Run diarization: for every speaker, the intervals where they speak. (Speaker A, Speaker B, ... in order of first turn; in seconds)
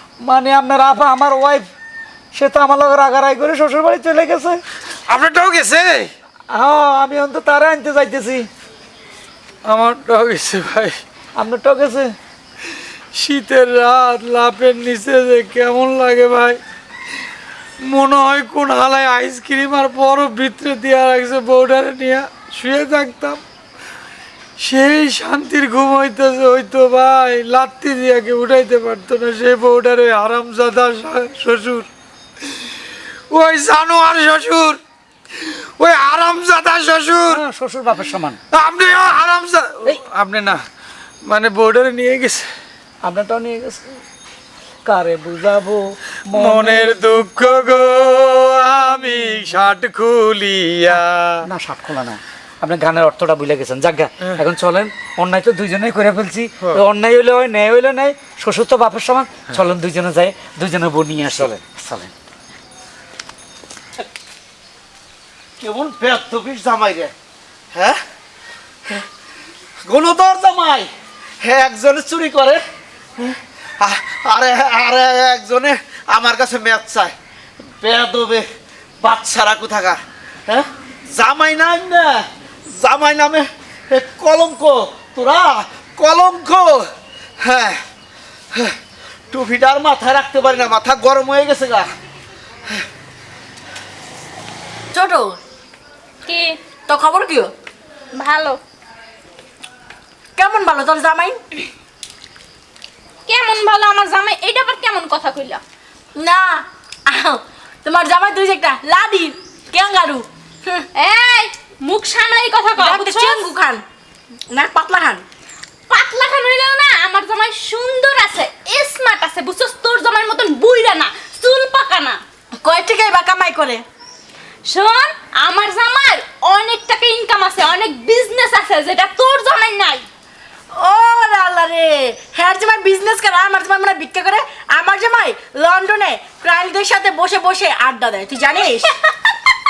Speaker A: 0.2-1.7, 2.3-4.6, 6.5-8.5, 11.4-12.1, 37.3-38.4, 43.0-44.0, 44.9-47.0, 51.4-62.1
Speaker B: 5.1-6.1, 9.6-11.0, 13.1-16.6, 17.8-23.4, 24.6-31.9, 33.3-34.8, 35.4-37.4, 38.5-40.6, 41.2-42.5, 46.3-51.5
Speaker C: 65.6-67.1, 67.7-68.0, 69.9-70.9, 71.4-72.6, 73.2-77.1, 77.8-78.5, 79.0-86.9, 87.4-87.8, 89.3-91.9
Speaker D: 94.9-95.4, 96.9-97.5, 100.3-101.4, 106.2-110.9, 112.8-113.8, 114.5-115.2, 122.6-123.8, 130.7-138.9
Speaker E: 96.2-96.6, 98.1-98.6, 103.2-105.6, 110.9-113.5, 115.9-122.2, 124.7-130.1, 138.5-139.3